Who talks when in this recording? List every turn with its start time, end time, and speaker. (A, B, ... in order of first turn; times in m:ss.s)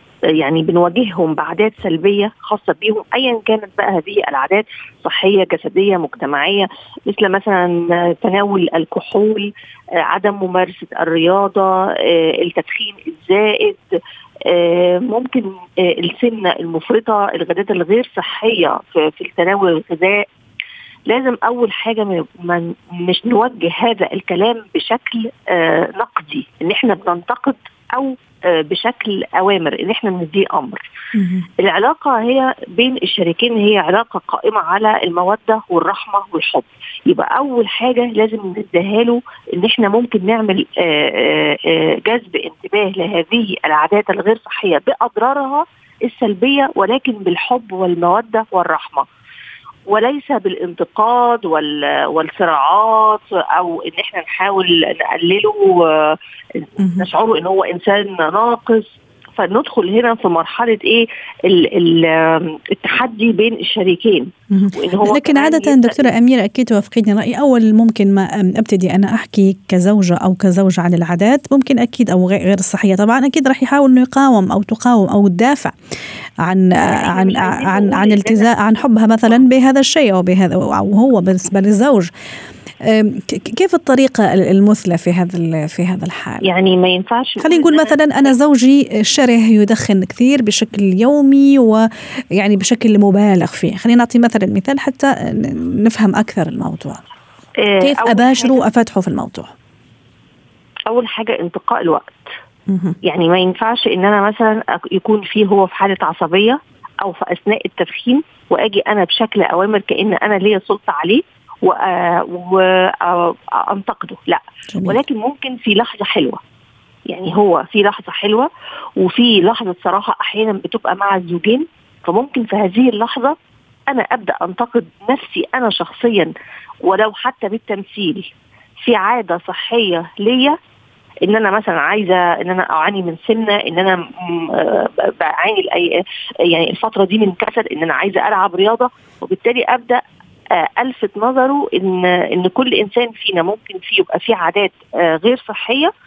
0:00.4-0:13.8 A
0:14.4-0:20.3 A
0:21.1-0:30.8 A
0:31.1-0:31.5 B
0:31.6-0:49.0 A
0:49.9-1:06.1 A
0:56.8-0:57.0 B
1:04.5-1:15.7 B
1:16.4-1:22.1 B
1:16.8-1:18.5 A
1:22.8-1:26.4 B
1:26.4-1:27.9 A
1:27.4-1:37.0 B
1:37.6-1:38.6 A
1:37.8-1:39.5 B
1:40.9-1:42.4 A
1:42.7-1:43.0 B
1:43.0-1:56.4 A
1:54.7-1:55.0 B
1:57.1-2:03.4 A
2:03.9-2:06.3 A
2:06.8-2:08.3 A
2:08.8-2:10.6 A
2:11.2-2:20.0 A
2:20.5-2:25.9 A